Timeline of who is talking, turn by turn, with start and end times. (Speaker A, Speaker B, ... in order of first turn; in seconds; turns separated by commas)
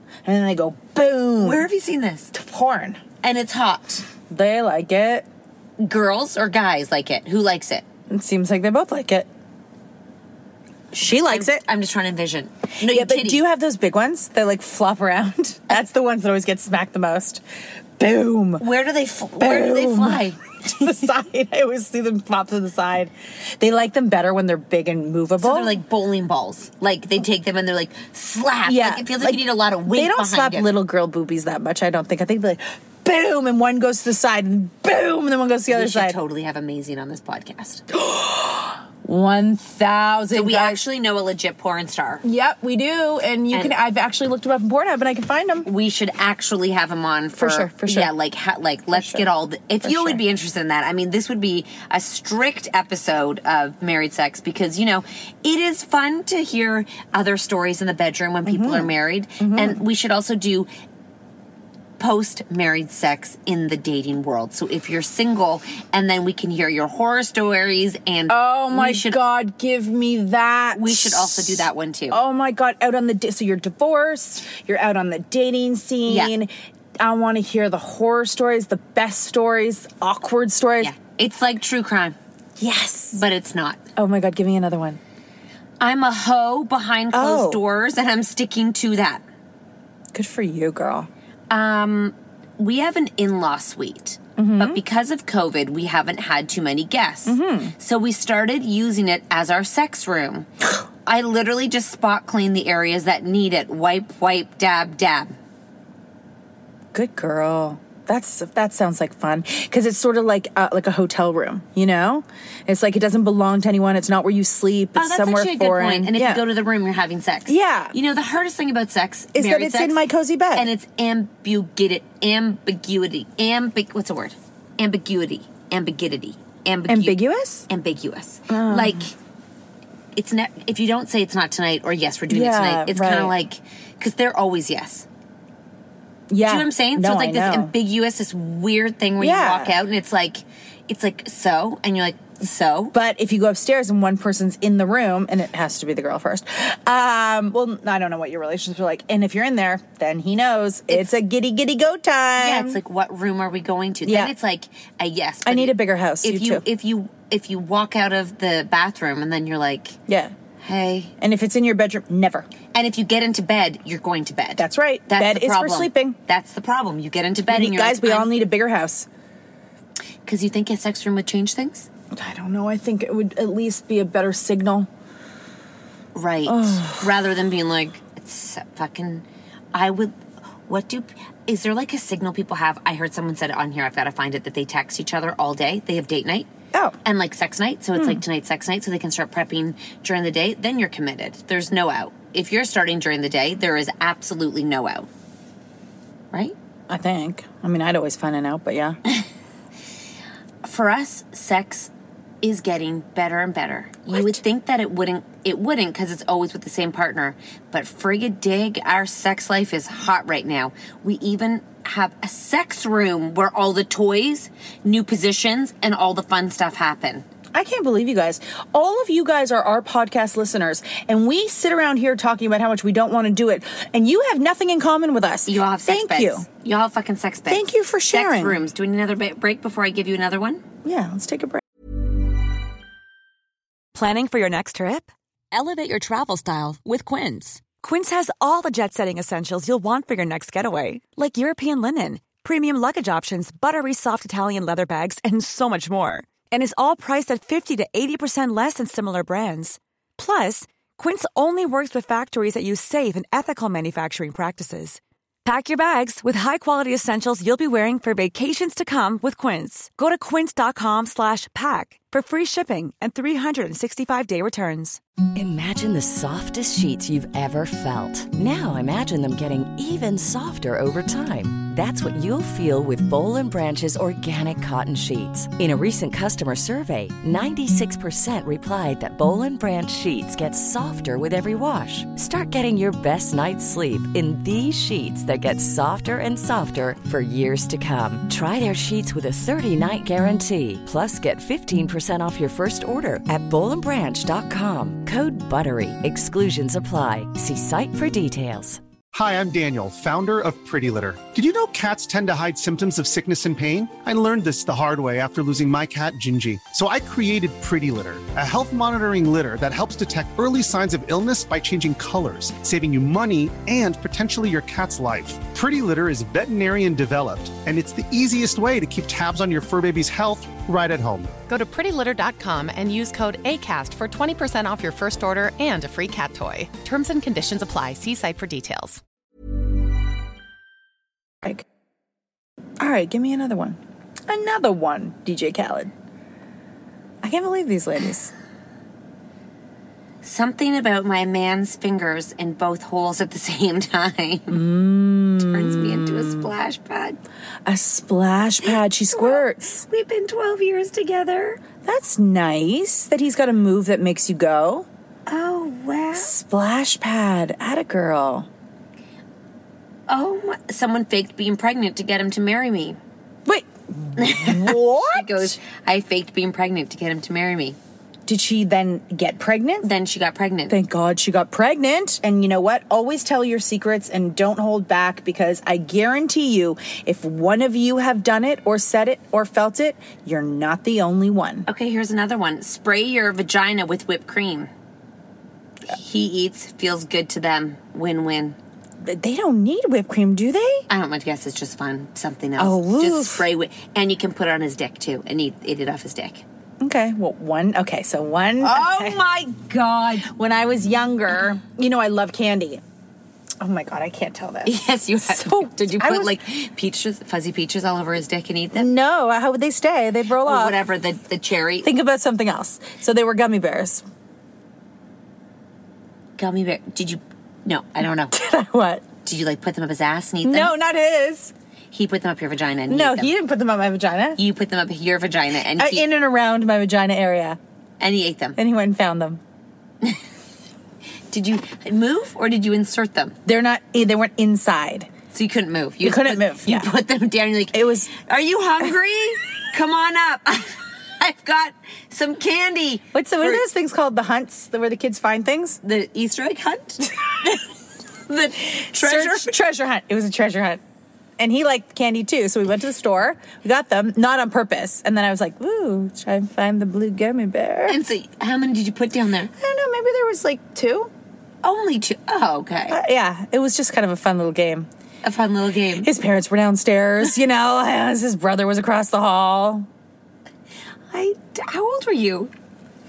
Speaker A: 0.2-1.6, Speaker B: 1.4-2.3, Speaker A: 2.3-3.0, Speaker B: 3.2-4.0, Speaker A: 4.3-5.2, Speaker B: 5.8-7.8, Speaker A: 8.1-9.3, Speaker B: 10.9-13.4, Speaker A: 10.9-11.6, Speaker A: 12.9-17.4, Speaker A: 18.0-18.6, Speaker B: 18.6-21.0, Speaker A: 19.4-25.8, Speaker B: 25.4-30.7, Speaker A: 28.6-36.1, Speaker B: 35.7-37.8, Speaker A: 37.9-40.8, Speaker B: 40.3-42.2, Speaker A: 42.2-45.7, Speaker B: 43.5-43.8, Speaker B: 45.6-60.7, Speaker A: 47.4-48.1, Speaker A: 48.9-49.2, Speaker A: 49.8-50.2, Speaker A: 58.5-59.8, Speaker B: 62.0-69.2, Speaker A: 68.3-80.9, Speaker B: 70.7-72.2, Speaker B: 76.0-76.3, Speaker B: 80.8-82.2, Speaker A: 82.6-83.2, Speaker B: 83.1-83.8, Speaker A: 84.0-85.0, Speaker B: 85.8-89.2, Speaker A: 87.1-87.6, Speaker A: 90.1-91.1, Speaker B: 91.5-100.5, Speaker A: 94.4-94.8, Speaker A: 97.3-97.7, Speaker B: 101.0-105.3, Speaker A: 106.9-116.4, Speaker B: 115.0-129.1, Speaker A: 117.5-117.9, Speaker A: 119.3-120.7, Speaker A: 126.9-127.7, Speaker A: 128.5-129.0, Speaker B: 130.1-135.1, Speaker A: 132.3-133.3, Speaker A: 136.3-137.7, Speaker B: 136.4-142.9, Speaker A: 139.2-139.7, Speaker A: 142.9-152.8, Speaker B: 152.4-160.0, Speaker A: 154.1-154.3, Speaker A: 155.4-156.6, Speaker A: 160.1-160.3, Speaker B: 160.6-161.1, Speaker A: 161.2-162.5, Speaker B: 162.7-168.3, Speaker A: 164.6-166.2, Speaker A: 167.5-169.1, Speaker B: 170.2-171.9, Speaker A: 172.1-174.9, Speaker B: 176.1-186.5, Speaker A: 176.5-177.1, Speaker B: 187.0-195.1, Speaker A: 196.9-199.0, Speaker B: 200.6-201.9, Speaker B: 202.4-217.2, Speaker A: 217.5-226.4, Speaker B: 225.4-230.6, Speaker A: 227.5-228.6, Speaker A: 230.8-231.6, Speaker C: 233.9-235.1, Speaker B: 235.5-237.6, Speaker C: 237.6-265.0, Speaker D: 265.3-298.8, Speaker E: 299.1-321.3, Speaker F: 321.5-329.0, Speaker A: 332.8-335.9, Speaker A: 337.2-338.3, Speaker B: 340.2-344.6, Speaker A: 344.5-346.5, Speaker B: 345.4-347.2, Speaker A: 347.6-349.8, Speaker B: 348.6-351.6, Speaker A: 351.8-354.9, Speaker B: 355.3-356.3, Speaker A: 356.2-358.5, Speaker B: 360.1-363.0, Speaker A: 363.4-365.6, Speaker B: 364.2-367.8, Speaker A: 368.3-369.9, Speaker B: 369.8-370.8, Speaker A: 370.7-381.6, Speaker B: 381.6-384.7, Speaker B: 385.9-388.6, Speaker A: 389.0-390.8, Speaker B: 390.9-396.4, Speaker A: 392.6-393.4, Speaker A: 396.8-399.2, Speaker B: 398.6-400.3, Speaker A: 400.3-402.8, Speaker A: 403.6-406.3, Speaker B: 404.6-408.9, Speaker A: 408.7-410.8, Speaker B: 410.4-411.9, Speaker A: 411.8-414.0, Speaker B: 416.4-418.3, Speaker A: 418.3-419.1, Speaker B: 419.2-420.7, Speaker A: 420.4-421.5, Speaker B: 421.9-423.3, Speaker A: 422.9-424.4, Speaker B: 424.4-426.1, Speaker A: 425.8-427.6, Speaker B: 428.0-428.6, Speaker A: 428.6-429.4, Speaker B: 431.3-433.4, Speaker A: 433.4-435.1, Speaker B: 435.3-443.6, Speaker A: 436.0-436.9, Speaker A: 437.7-438.1, Speaker A: 443.1-445.8, Speaker B: 445.8-447.6, Speaker B: 448.3-449.5, Speaker A: 448.9-450.8, Speaker A: 451.4-458.0, Speaker B: 457.9-459.5, Speaker A: 459.6-461.1, Speaker B: 461.6-463.0, Speaker A: 462.9-464.9, Speaker B: 465.2-466.1, Speaker A: 466.0-469.9, Speaker B: 471.1-472.5